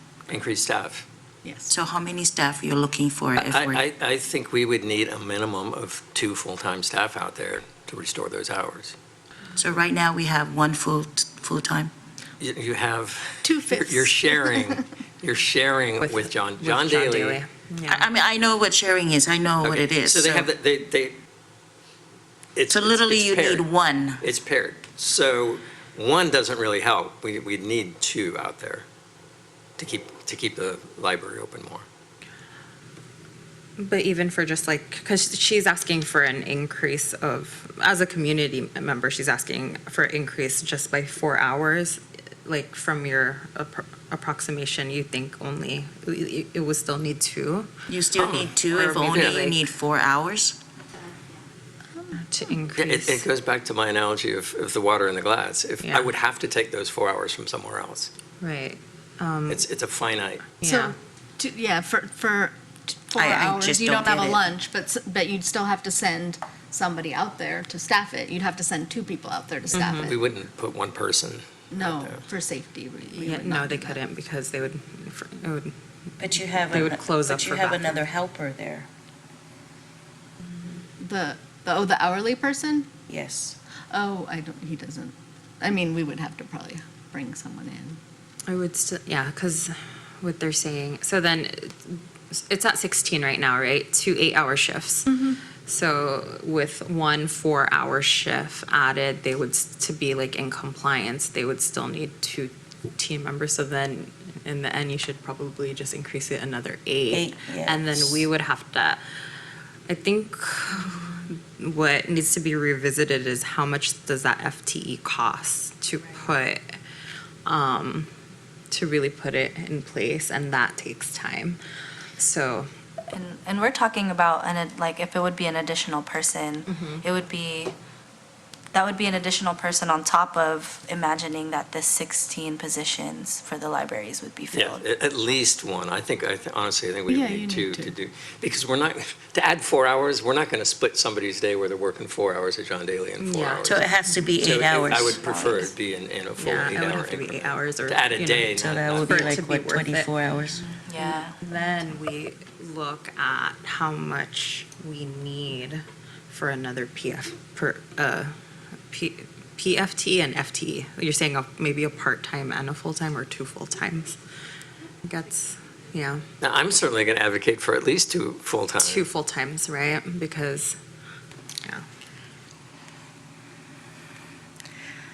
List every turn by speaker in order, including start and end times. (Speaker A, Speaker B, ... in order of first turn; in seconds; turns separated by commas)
Speaker A: 0.3-1.1, Speaker B: 1.7-3.9, Speaker A: 3.4-9.0, Speaker B: 9.6-11.9, Speaker A: 12.4-17.4, Speaker C: 16.0-18.1, Speaker B: 17.9-20.5, Speaker A: 19.6-21.2, Speaker A: 22.6-23.7, Speaker B: 22.7-24.2, Speaker A: 24.2-28.9, Speaker A: 29.8-31.9, Speaker C: 33.8-47.7, Speaker B: 47.9-50.6, Speaker A: 48.2-48.5, Speaker C: 48.6-49.7, Speaker A: 49.1-49.4, Speaker C: 52.1-53.3, Speaker A: 52.8-58.1, Speaker C: 55.8-56.1, Speaker C: 58.4-59.6, Speaker A: 59.5-60.6, Speaker C: 60.6-61.0, Speaker D: 60.7-70.0, Speaker B: 63.2-64.5, Speaker C: 69.7-70.1, Speaker A: 69.8-72.2, Speaker D: 72.4-73.9, Speaker C: 73.1-75.7, Speaker B: 76.2-78.9, Speaker C: 76.7-78.0, Speaker D: 81.0-82.9, Speaker B: 83.1-83.6, Speaker D: 83.9-88.0, Speaker C: 88.5-109.0, Speaker D: 95.1-95.4, Speaker B: 107.1-108.3, Speaker C: 109.9-116.6, Speaker C: 117.5-118.1, Speaker C: 118.7-121.6, Speaker C: 122.2-122.7, Speaker E: 123.1-127.7, Speaker C: 126.7-127.0, Speaker E: 128.7-134.8, Speaker A: 134.5-143.9, Speaker C: 143.2-143.8, Speaker B: 143.7-145.2, Speaker A: 144.4-149.3, Speaker E: 144.9-145.7, Speaker C: 146.4-150.1, Speaker B: 148.6-150.7, Speaker E: 150.8-151.4, Speaker C: 151.4-158.3, Speaker C: 158.9-164.2, Speaker C: 165.0-166.2, Speaker A: 166.4-169.1, Speaker C: 168.8-170.8